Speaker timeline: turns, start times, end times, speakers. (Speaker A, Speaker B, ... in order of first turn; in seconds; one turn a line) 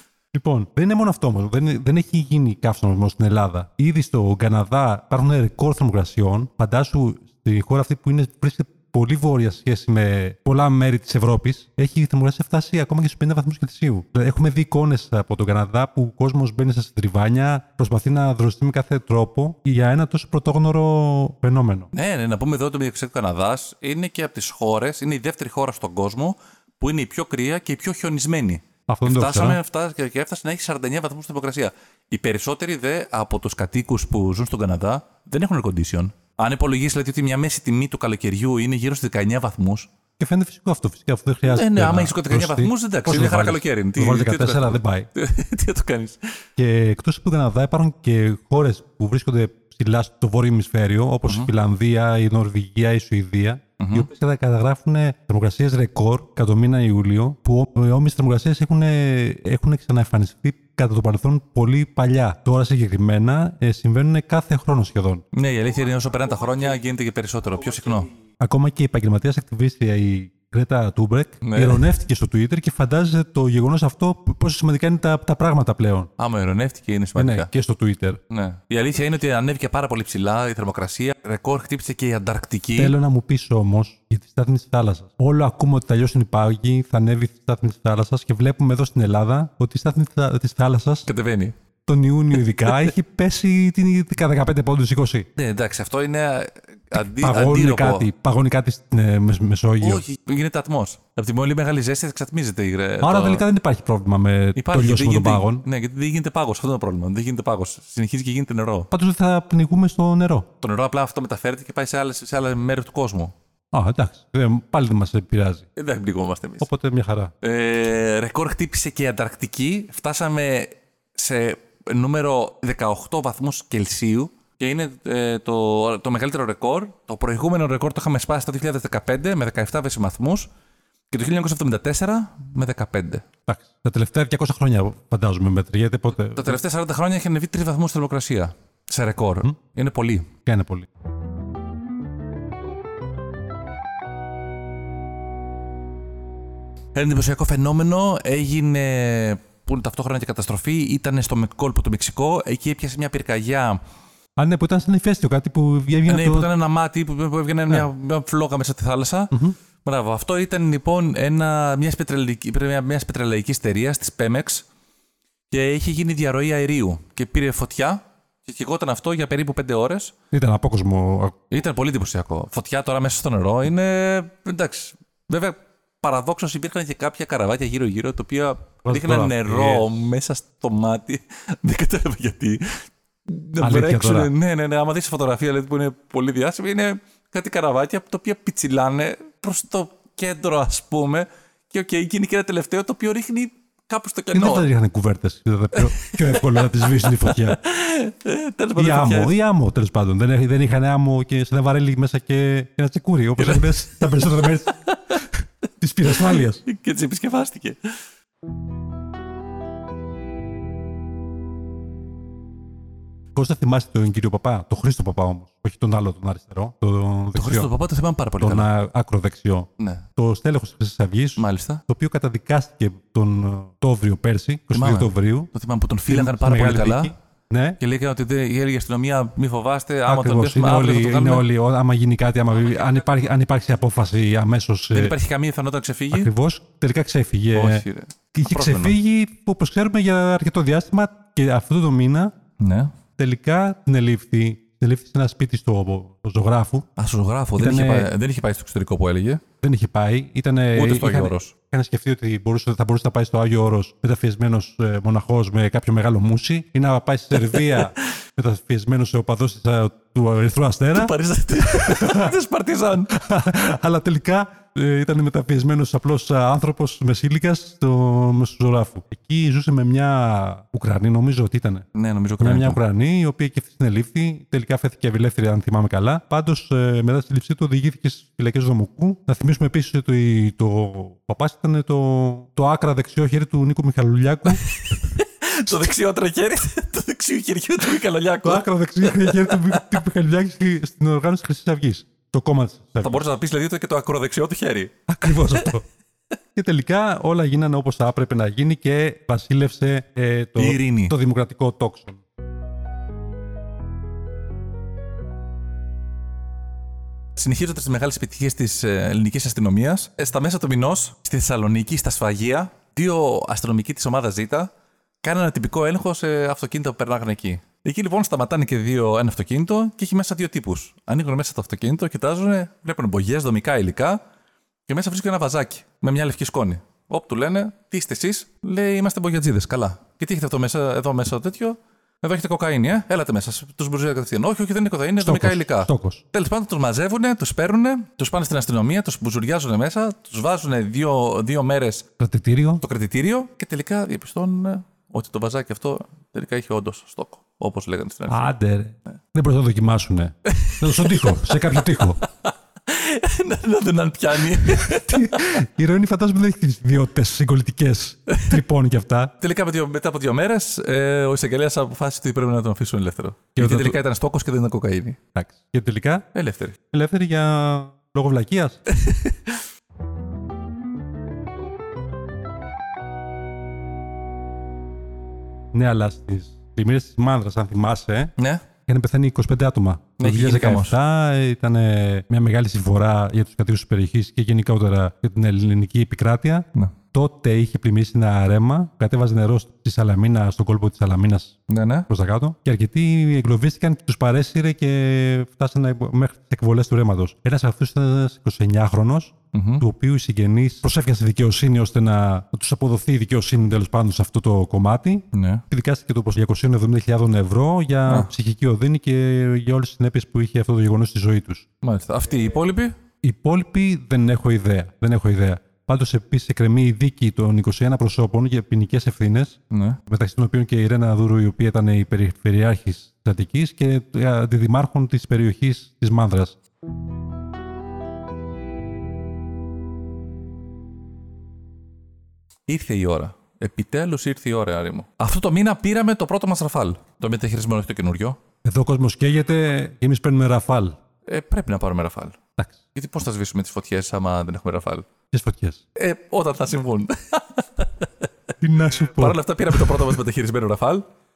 Speaker A: 0.3-21.9
Speaker B: 21.9-39.9
Speaker A: 28.9-29.6
Speaker A: 40.2-45.1
Speaker B: 41.5-46.2
Speaker A: 46.6-65.2
Speaker B: 53.8-54.1
Speaker B: 65.3-68.1
Speaker A: 68.4-76.1
Speaker B: 71.4-71.9
Speaker B: 76.2-77.5
Speaker A: 77.2-78.2
Speaker B: 78.3-82.9
Speaker A: 82.7-91.1
Speaker B: 91.1-91.5
Speaker A: 91.8-95.3
Speaker B: 95.3-98.1
Speaker A: 97.0-100.0
Speaker B: 99.8-103.4
Speaker A: 103.0-105.6
Speaker B: 104.5-108.9
Speaker A: 108.9-110.5
Speaker B: 110.6-113.3
Speaker A: 113.7-115.7
Speaker B: 115.8-116.7
Speaker A: 116.6-117.3
Speaker B: 117.4-130.5
Speaker B: 131.1-133.2
Speaker A: 133.5-136.6
Speaker B: 136.2-140.3
Speaker A: 140.4-140.9
Speaker B: 146.9-153.8
Speaker A: 154.4-156.5
Speaker B: 156.0-164.7
Speaker A: 159.3-159.6
Speaker B: 165.5-170.1
Speaker A: 170.3-171.3
Speaker B: 171.5-194.7
Speaker A: 178.8-179.9
Speaker A: 183.6-184.3
Speaker A: 194.3-197.6
Speaker B: 195.8-199.3
Speaker A: 198.8-204.8
Speaker B: 203.4-205.2
Speaker A: 205.8-206.6
Speaker B: 206.1-207.9
Speaker A: 213.3-217.7
Speaker B: 217.3-218.7
Speaker A: 218.4-225.5
Speaker B: 219.8-220.0
Speaker B: 221.4-221.8
Speaker B: 224.7-227.1
Speaker A: 226.1-227.8
Speaker B: 227.8-231.5
Speaker A: 230.1-235.1
Speaker B: 234.9-236.3
Speaker A: 236.1-242.3
Speaker B: 237.5-238.9
Speaker B: 242.6-242.9
Speaker A: 243.2-246.8
Speaker B: 247.0-249.4
Speaker A: 247.6-248.1
Speaker A: 249.6-261.2
Speaker B: 250.7-251.5
Speaker B: 257.5-257.9
Speaker B: 260.9-263.1
Speaker A: 261.7-262.3
Speaker A: 263.1-271.9
Speaker B: 271.9-272.8
Speaker A: 272.4-284.6
Speaker B: 284.6-289.9
Speaker A: 288.4-293.2
Speaker B: 293.0-295.8
Speaker A: 295.1-295.8
Speaker A: 296.5-302.2
Speaker B: 300.6-301.1
Speaker B: 307.4-314.7
Speaker B: 315.2-324.2
Speaker B: 324.9-342.0
Speaker A: 335.2-336.2
Speaker A: 342.2-342.8
Speaker B: 342.8-348.5
Speaker A: 348.3-352.2
Speaker B: 350.5-355.6
Speaker A: 354.6-359.3
Speaker B: 359.4-365.2
Speaker A: 363.6-364.0
Speaker A: 365.3-366.2
Speaker B: 366.3-366.8
Speaker A: 366.9-368.8
Speaker B: 368.9-369.6
Speaker A: 375.7-378.3
Speaker B: 378.4-378.6
Speaker A: 378.9-411.6
Speaker B: 380.2-381.0
Speaker B: 391.7-392.1
Speaker B: 399.5-399.8
Speaker B: 405.3-405.6
Speaker B: 408.1-408.3
Speaker B: 411.8-412.9
Speaker A: 413.2-426.6
Speaker B: 419.7-420.0
Speaker B: 432.7-438.4
Speaker A: 438.6-441.0
Speaker B: 441.3-442.4
Speaker B: 442.9-445.0
Speaker A: 445.3-445.8
Speaker B: 445.9-448.3
Speaker A: 448.6-450.0
Speaker B: 449.1-451.0